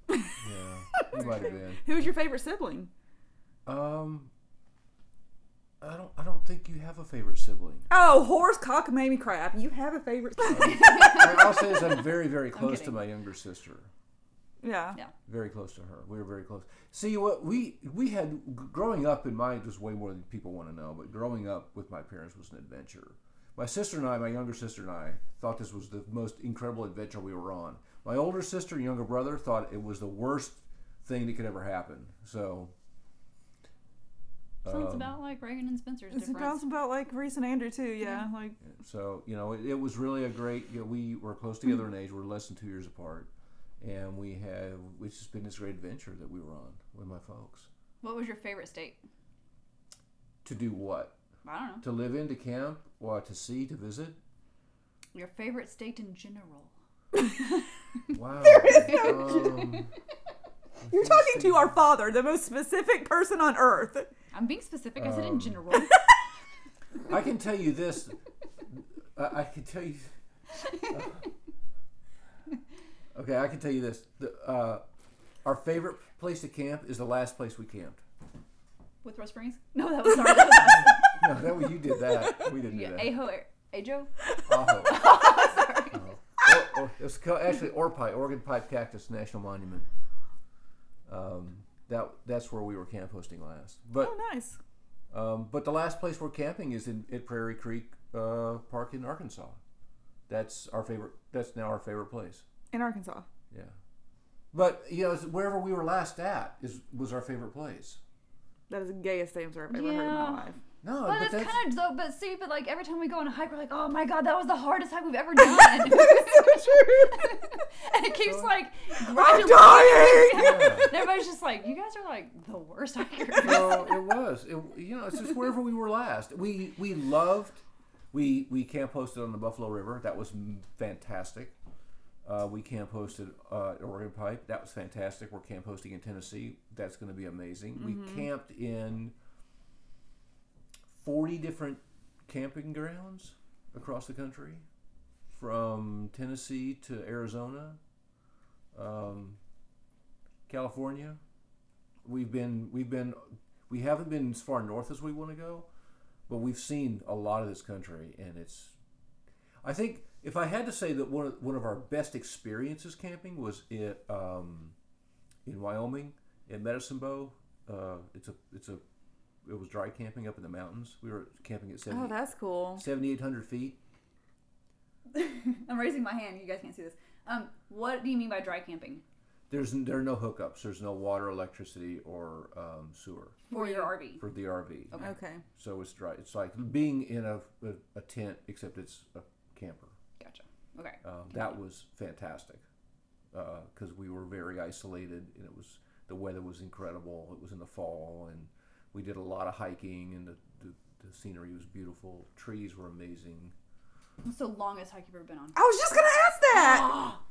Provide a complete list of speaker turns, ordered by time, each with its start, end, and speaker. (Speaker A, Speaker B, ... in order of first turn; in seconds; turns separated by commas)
Speaker A: 0.4-1.8, Speaker B: 1.1-2.9, Speaker C: 1.2-1.4, Speaker A: 3.6-4.3, Speaker A: 5.8-7.9, Speaker B: 7.9-11.1, Speaker C: 10.5-11.9, Speaker A: 10.5-13.9, Speaker C: 12.5-13.0, Speaker B: 14.6-15.0, Speaker A: 15.2-32.7, Speaker A: 34.6-35.1, Speaker C: 34.6-36.6, Speaker B: 36.1-38.6, Speaker A: 38.6-47.7, Speaker C: 48.0-49.0, Speaker A: 50.4-51.2, Speaker C: 51.4-51.8, Speaker A: 51.8-54.2, Speaker C: 55.1-56.7, Speaker A: 58.1-59.9, Speaker B: 58.5-59.8, Speaker C: 58.6-59.3, Speaker A: 60.8-61.7, Speaker B: 60.9-64.1, Speaker C: 64.3-66.0, Speaker A: 65.0-65.6, Speaker A: 67.0-70.1, Speaker A: 70.9-71.2, Speaker A: 73.1-74.8, Speaker A: 75.4-78.0, Speaker C: 79.0-81.2, Speaker A: 81.2-83.1, Speaker C: 82.6-84.1, Speaker A: 84.5-85.1, Speaker C: 84.8-86.1, Speaker A: 85.9-89.9, Speaker A: 91.0-94.1, Speaker B: 94.0-94.6, Speaker A: 95.1-99.6, Speaker A: 100.3-102.4, Speaker B: 102.7-103.3, Speaker A: 104.5-108.0, Speaker B: 108.7-110.6, Speaker C: 109.7-110.5, Speaker A: 110.8-111.6, Speaker C: 111.0-123.9, Speaker A: 118.2-118.5, Speaker B: 119.1-120.6, Speaker A: 120.3-120.9, Speaker A: 123.4-131.5, Speaker A: 132.2-139.1, Speaker B: 137.8-138.2, Speaker A: 140.9-144.6, Speaker A: 145.3-147.8, Speaker A: 148.7-149.4, Speaker A: 150.5-151.2, Speaker A: 152.0-155.7, Speaker A: 156.3-158.7, Speaker A: 159.6-164.7, Speaker A: 165.4-168.8, Speaker A: 169.4-172.2, Speaker B: 171.9-172.8, Speaker A: 172.8-173.8, Speaker C: 175.1-179.0, Speaker A: 179.5-185.0, Speaker C: 183.5-184.2, Speaker B: 185.0-185.4, Speaker A: 185.5-189.9, Speaker C: 190.2-191.6, Speaker A: 191.0-192.6, Speaker A: 193.3-203.5, Speaker C: 204.2-205.6, Speaker B: 205.5-207.0, Speaker C: 206.5-207.2